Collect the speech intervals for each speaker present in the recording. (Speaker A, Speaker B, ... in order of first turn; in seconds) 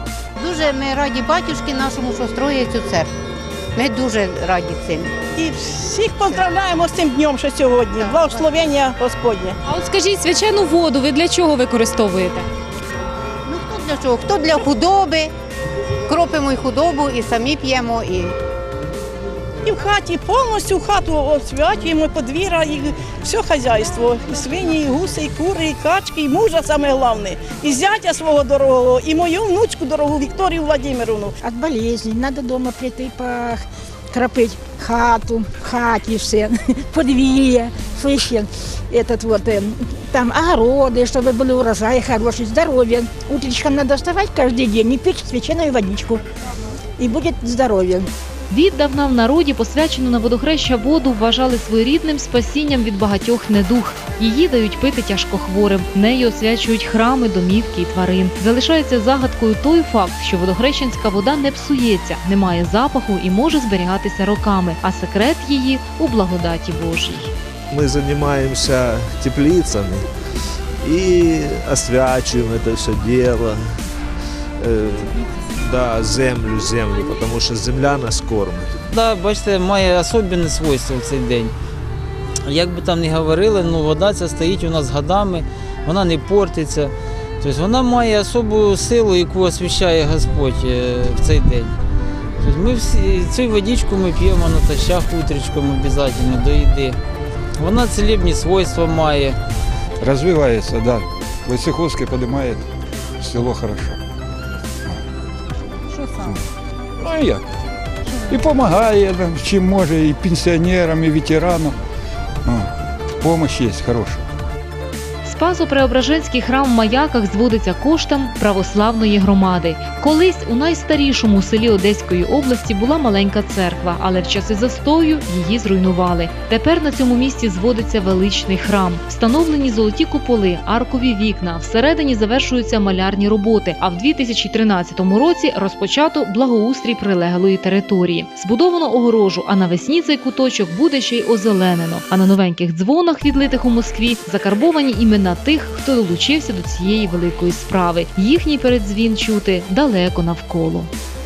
Speaker A: 0.4-3.1, 3.8-5.1, 13.5-15.3, 16.1-18.3
Speaker B: 5.4-9.5, 19.6-31.3
Speaker C: 9.7-12.4
Speaker D: 31.4-46.2, 47.0-48.0
Speaker E: 48.5-67.3, 115.2-150.9
Speaker F: 67.7-70.0, 70.8-73.6, 74.6-78.9
Speaker G: 79.0-81.5, 82.5-91.7, 92.4-97.0, 97.6-99.3
Speaker H: 100.0-102.6, 103.2-104.0, 106.1-106.4, 107.0-107.4, 108.2-111.8, 113.2-114.2